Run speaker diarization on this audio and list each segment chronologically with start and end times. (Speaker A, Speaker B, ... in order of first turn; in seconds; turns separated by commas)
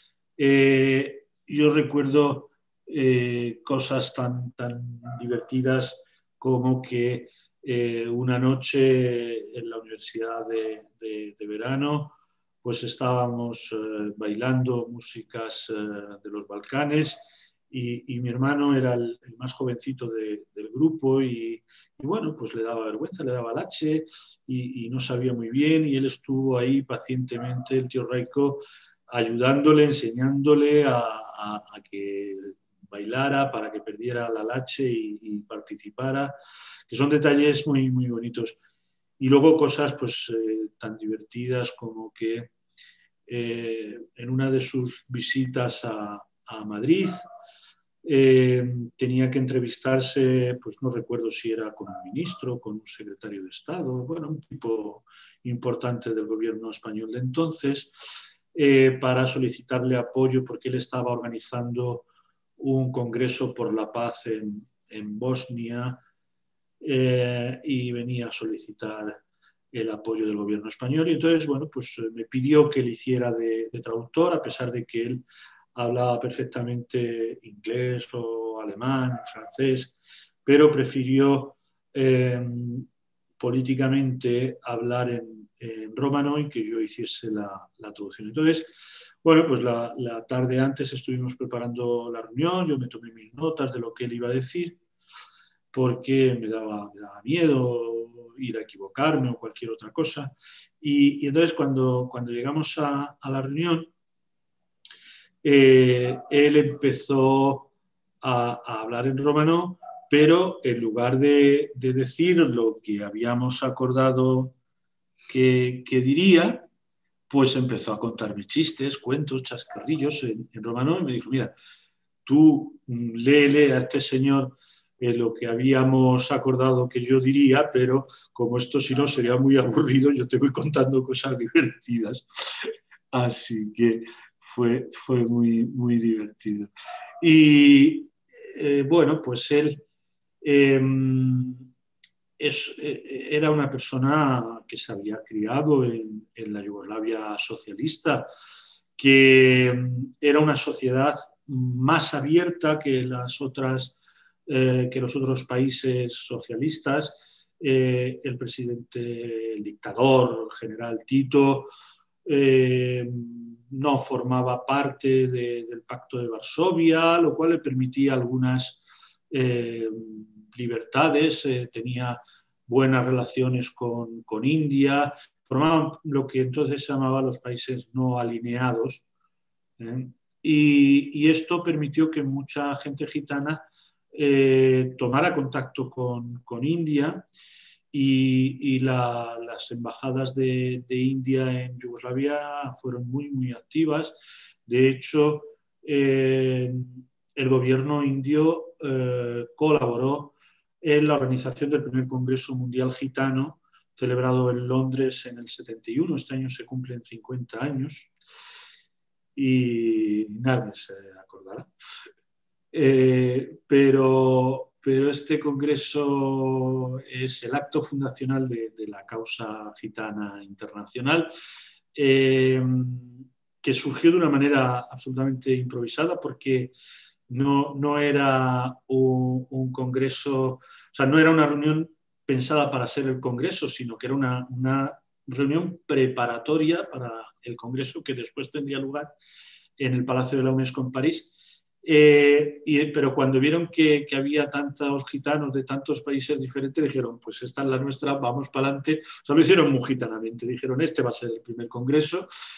Speaker A: 0.4-36.3, Speaker A: 36.9-38.6, Speaker A: 39.2-42.5, Speaker A: 43.3-47.2, Speaker A: 48.0-58.0, Speaker A: 58.5-66.0, Speaker A: 66.8-69.2, Speaker A: 69.7-75.2, Speaker A: 75.7-82.9, Speaker A: 83.4-94.8, Speaker A: 95.7-103.9, Speaker A: 105.4-107.7, Speaker A: 108.2-114.5, Speaker A: 115.3-116.7, Speaker A: 117.3-121.5, Speaker A: 122.2-136.7, Speaker A: 137.2-139.8, Speaker A: 140.4-141.7, Speaker A: 142.4-148.3, Speaker A: 149.0-161.7, Speaker A: 162.2-179.0, Speaker A: 179.8-187.2, Speaker A: 187.9-208.1, Speaker A: 209.3-211.7, Speaker A: 212.7-221.3, Speaker A: 221.9-226.7, Speaker A: 227.3-239.1, Speaker A: 239.8-241.3, Speaker A: 241.8-252.3